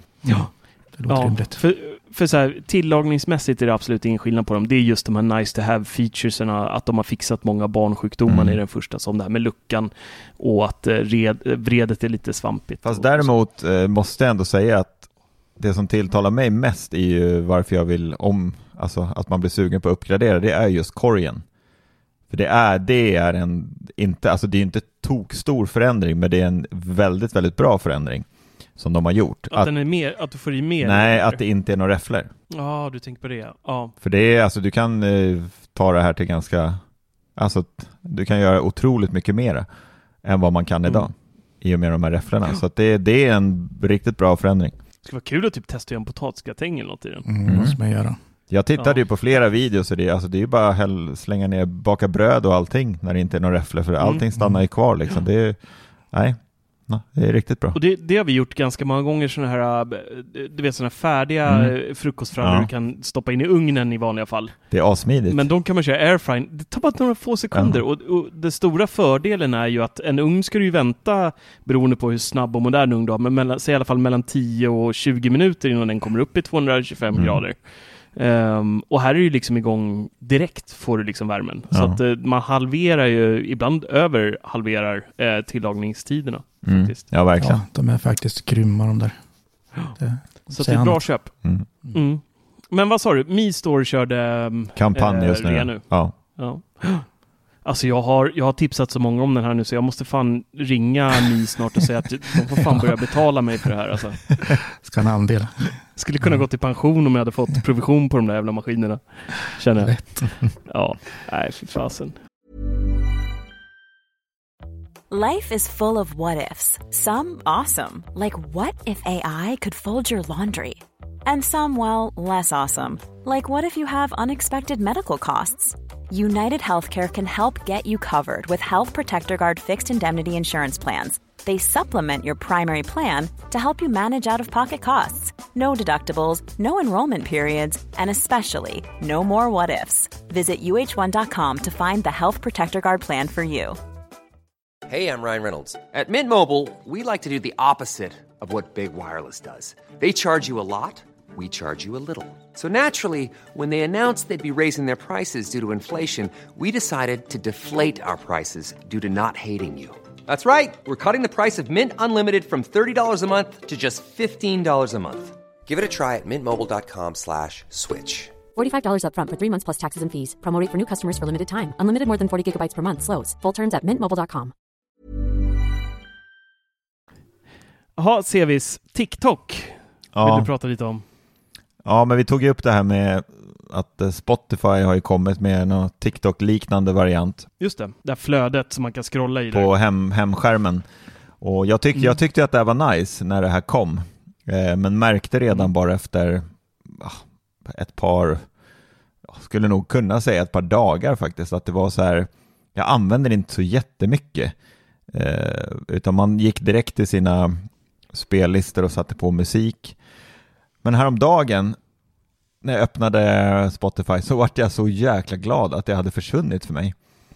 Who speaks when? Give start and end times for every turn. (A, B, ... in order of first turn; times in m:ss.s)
0:00.2-0:01.6 A
0:01.1-0:13.3 B
0:08.3-0:08.6 C
0:12.8-0:21.4 C
0:22.3-0:28.2 C
0:28.8-0:29.7 C
0:29.5-0:31.4 B
0:30.8-0:32.3 C
0:32.5-0:33.9 B
0:34.0-0:36.8 C
0:37.4-0:39.7 C
0:40.2-0:44.7 C
0:45.0-0:47.2 B
0:47.2-0:48.2 A
0:47.4-0:47.8 C
0:48.5-0:55.6 C
0:48.7-0:49.0 B
0:54.4-0:54.6 A
0:56.1-0:57.8 C
0:57.7-1:04.6 B
1:01.5-1:01.7 C
1:02.4-1:02.7 C
1:04.7-1:05.4 C
1:05.3-1:17.6 B
1:07.5-1:07.8 C
1:18.1-1:27.0 B
1:21.7-1:22.0 C
1:26.6-1:27.6 C
1:27.4-1:29.2 A
1:29.9-1:31.1 A
1:30.5-1:31.3 B
1:31.9-1:37.1 B
1:34.8-1:36.1 C
1:37.6-1:44.3 B
1:44.7-1:46.4 A
1:46.0-1:52.2 B
1:49.8-1:50.3 A
1:55.1-2:23.8 D
2:24.9-2:48.3 E
2:48.5-2:54.5 F
2:58.0-3:01.0 B
3:00.1-3:00.5 C
3:01.8-3:07.5 C
3:07.6-3:09.7 B
3:09.5-3:10.8 C
3:11.4-3:18.4 C
3:15.5-3:15.7 B
3:19.3-3:24.5 C
3:25.1-3:27.6 C
3:28.1-3:30.0 C
3:30.8-3:31.8 C
3:32.6-3:36.9 C